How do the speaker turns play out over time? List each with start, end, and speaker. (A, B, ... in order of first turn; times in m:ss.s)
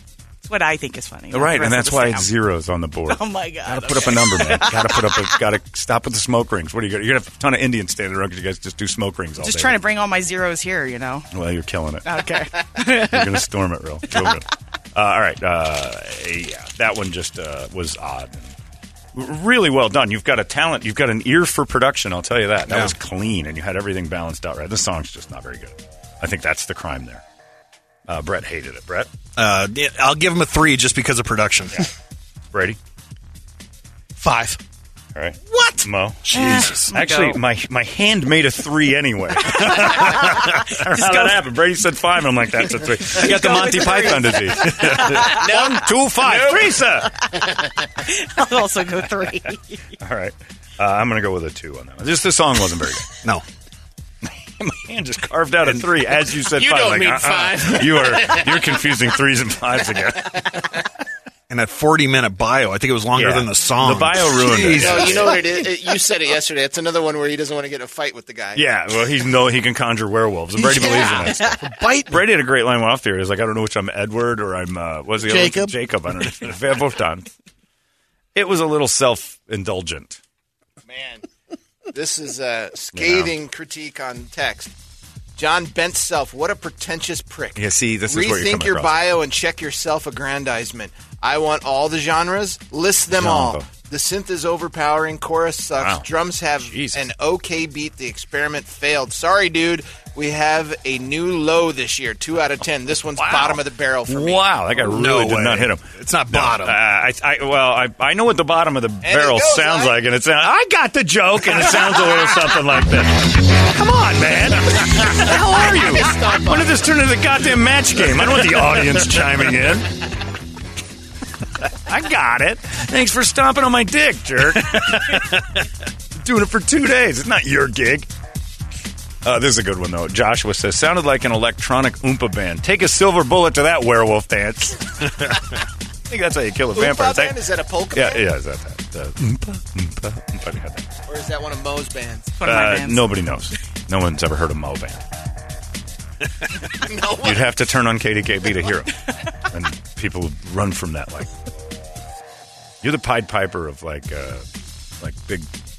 0:00.4-0:02.3 A
0:01.3-0:09.8 B
0:03.1-0:05.4 A
0:09.4-0:11.2 A
0:11.3-0:12.0 B
0:12.0-0:13.3 A
0:12.9-0:18.5 B
0:14.1-0:14.3 A
0:19.1-0:27.2 B
0:28.1-0:29.1 B
0:29.4-0:31.9 C
0:32.5-0:32.8 B
0:34.2-0:34.6 D
0:35.1-0:47.2 B
0:36.3-0:36.9 C
0:36.3-0:37.4 A
0:43.2-0:45.6 A
0:48.0-0:49.8 A
0:50.0-0:53.1 B
0:54.6-1:00.5 B
0:56.6-0:58.4 E
1:01.5-1:05.4 C
1:03.1-1:05.4 B
1:04.7-1:08.6 E
1:08.5-1:17.3 B
1:10.6-1:12.2 D
1:15.2-1:15.7 D
1:18.3-1:20.2 B
1:20.9-1:21.2 E
1:21.9-1:24.7 E
1:22.9-1:23.3 B
1:25.4-1:44.5 E
1:27.6-1:29.1 B
1:33.1-1:33.6 B
1:35.8-1:36.1 B
1:36.6-1:37.1 B
1:43.2-1:43.5 B
1:44.1-1:59.9 B
1:44.8-1:46.8 C
1:49.0-1:50.0 E
1:56.0-1:56.6 E
2:01.8-2:05.5 B
2:06.2-2:08.1 B
2:09.2-2:15.3 B
2:16.1-2:17.4 B
2:16.7-2:18.3 E
2:17.9-2:20.9 B
2:21.1-2:22.4 E
2:22.4-2:23.1 A
2:22.4-2:25.0 B
2:26.7-2:27.4 E
2:27.1-2:28.9 B
2:29.5-2:31.3 B
2:32.8-2:34.4 B
2:35.0-2:35.5 B